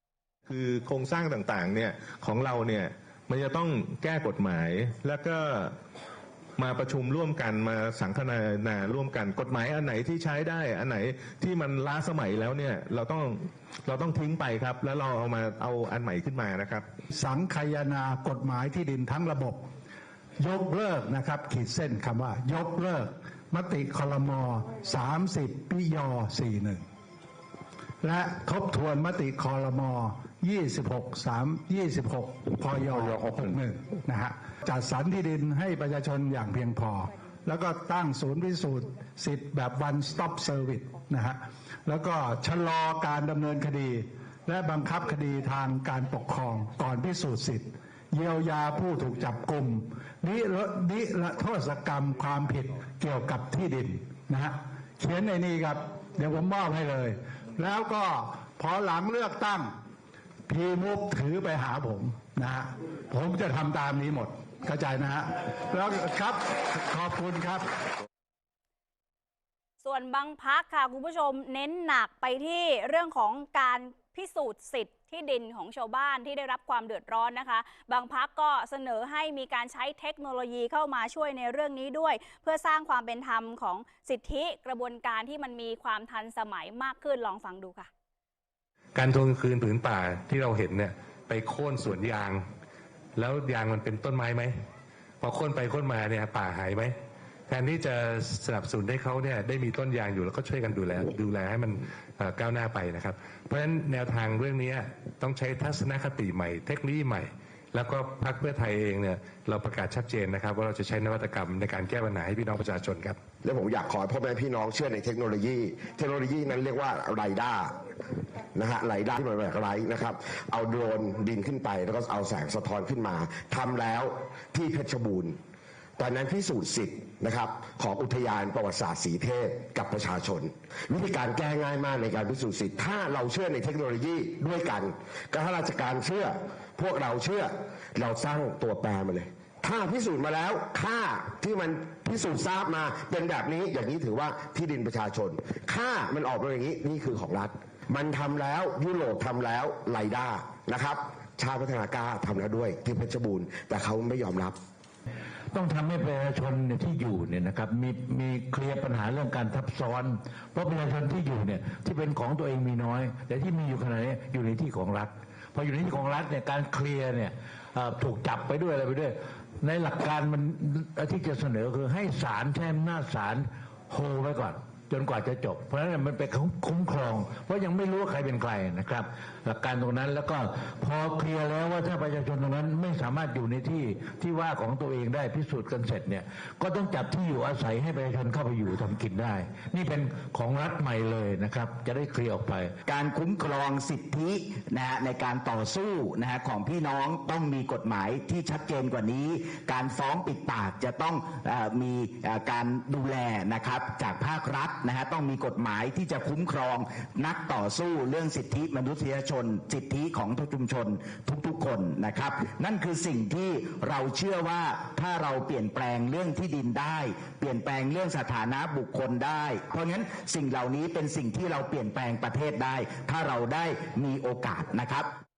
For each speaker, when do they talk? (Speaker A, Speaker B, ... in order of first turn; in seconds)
Speaker A: 0.5-5.8, 6.6-16.9
Speaker B: 17.3-18.5, 20.5-20.7, 21.4-23.0, 24.2-26.8, 28.0-28.7, 29.4-37.1, 37.6-41.4, 41.9-47.6
Speaker C: 32.9-33.5, 113.4-117.7, 118.5-125.4, 126.0-154.6
Speaker D: 50.2-50.7, 55.0-55.5, 56.2-59.6, 63.1-63.9, 65.8-66.2, 66.9-67.6, 155.5-192.8
Speaker E: 69.8-87.9
Speaker F: 89.0-92.4, 93.2-94.5, 95.2-96.9, 97.5-113.2
Speaker G: 192.9-225.1